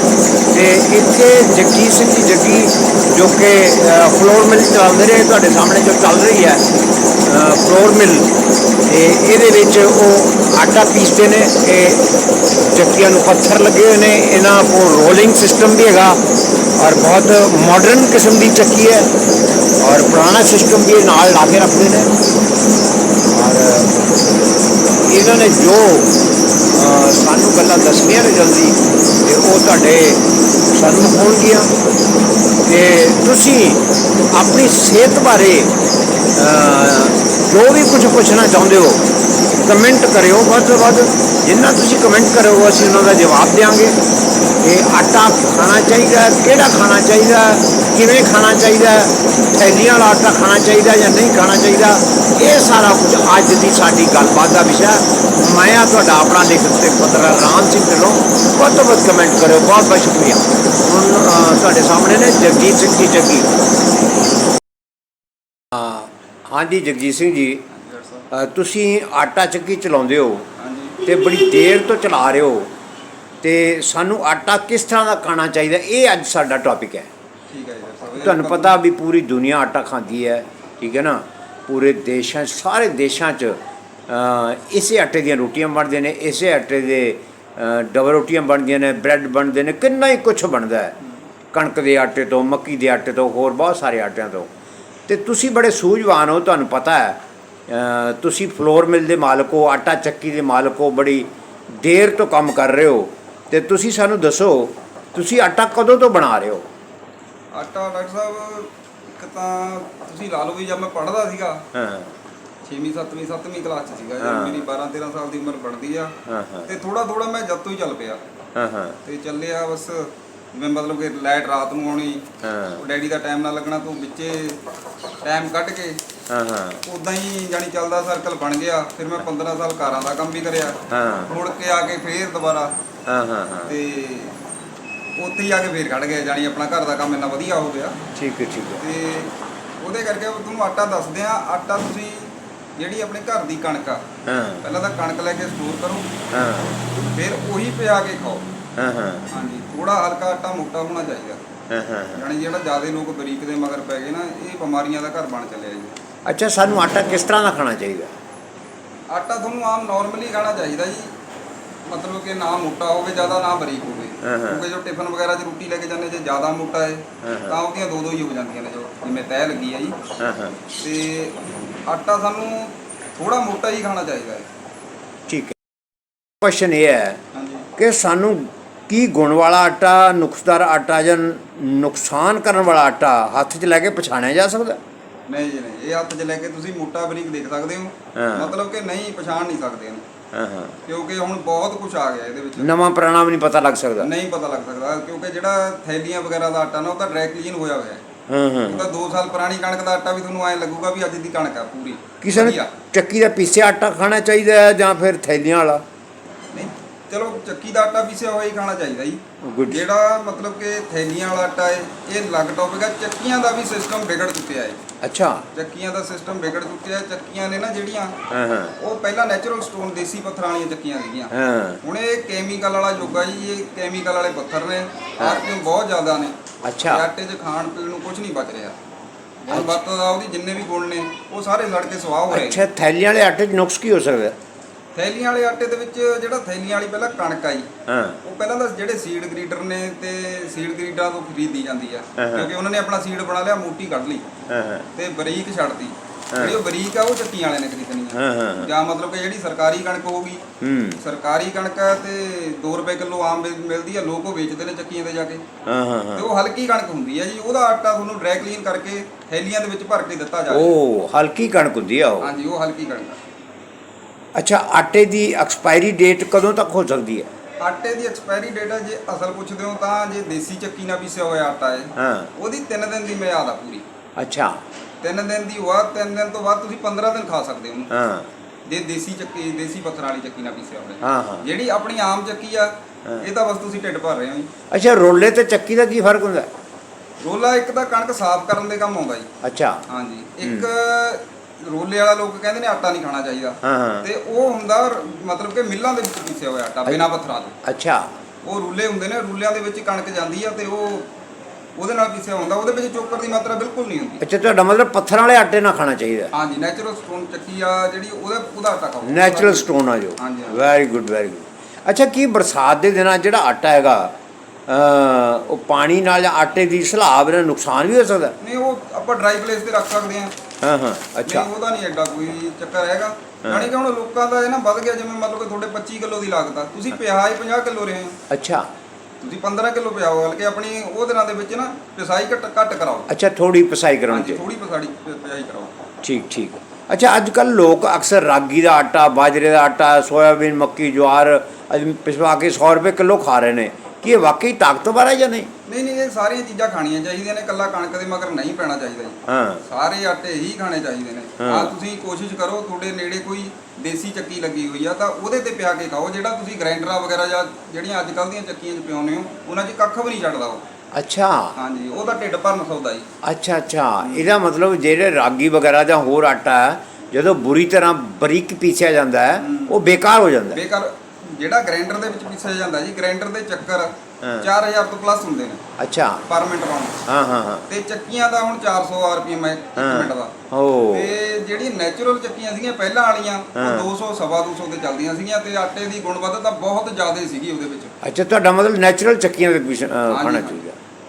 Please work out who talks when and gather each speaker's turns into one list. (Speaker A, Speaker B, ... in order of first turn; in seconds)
Speaker A: 0.5-6.7, 7.2-8.3, 8.8-12.1, 12.7-16.2, 16.8-19.1, 19.8-22.1, 23.3-24.0, 24.9-26.1, 26.7-31.7, 32.6-35.7, 36.4-39.0, 39.6-44.0, 44.6-63.5, 65.7-67.6, 68.3-70.5, 71.0-72.7, 73.4-77.1, 78.2-91.0, 91.5-94.5, 95.1-106.7, 111.7-112.2, 114.2-114.7, 116.3-116.7, 118.6-119.0, 122.4-122.8, 126.3-126.8, 130.9-131.3, 133.1-133.8, 138.2-138.8, 144.3-144.6, 146.3-146.8, 148.8-149.3, 151.7-152.3, 156.3-158.1, 164.2-164.6, 167.2-167.6, 170.2-170.6, 175.3-175.6, 176.4-177.2, 177.8-184.8, 188.2-188.5, 190.3-190.8, 192.6-194.1, 198.3-198.9, 202.2-205.8, 209.4-209.8, 215.0-215.5, 218.3-218.8, 221.3-221.8, 225.2-225.4, 226.6-227.1, 229.5-229.8, 232.3-234.4, 237.9-238.2, 242.2-242.5, 244.5-244.9, 246.3-246.6, 248.1-248.7, 250.6-251.0, 255.7-256.3, 260.5-262.3, 264.4-267.3, 272.0-272.3, 274.2-274.6, 277.9-278.3, 281.0-281.4, 284.7-286.5, 289.4-289.8, 290.4-290.7, 293.6-294.1, 297.6-298.1, 304.2-306.3, 309.0-314.1, 314.7-318.4, 320.6-321.5, 323.4-323.7, 328.3-328.7, 333.1-334.4, 336.0-345.5, 349.3-349.6, 351.4-351.7, 360.9-361.5, 363.2-370.6, 374.2-374.5, 375.8-376.2, 377.1-377.7, 379.8-381.1, 383.6-383.9, 388.0-390.8
Speaker B: 67.7-68.3, 70.6-71.0, 77.5-78.8, 107.5-111.6, 112.6-116.2, 116.7-118.2, 119.0-122.2, 122.8-124.6, 125.2-126.0, 126.9-130.8, 131.3-132.7, 133.7-134.4, 135.2-138.0, 138.8-144.0, 144.6-146.1, 147.1-148.5, 149.3-151.4, 152.1-156.0, 159.1-161.1, 161.9-170.0, 170.8-174.5, 177.3-177.7, 185.3-190.0, 190.9-192.7, 194.0-198.0, 198.7-202.7, 206.5-214.8, 215.5-218.2, 218.8-228.8, 229.4-232.7, 234.9-237.7, 238.2-244.3, 245.0-250.4, 251.0-255.4, 256.1-260.7, 262.2-263.2, 267.6-273.9, 275.0-277.9, 278.7-284.5, 287.2-289.3, 289.9-297.6, 298.4-301.1, 301.8-304.2, 306.3-310.6, 318.4-320.3, 321.2-328.2, 329.2-333.1, 334.1-335.7, 345.7-360.6, 361.6-363.1, 364.0-364.3, 369.4-369.8, 370.5-375.6, 376.3-377.0, 377.7-380.3, 380.9-387.9, 390.1-390.6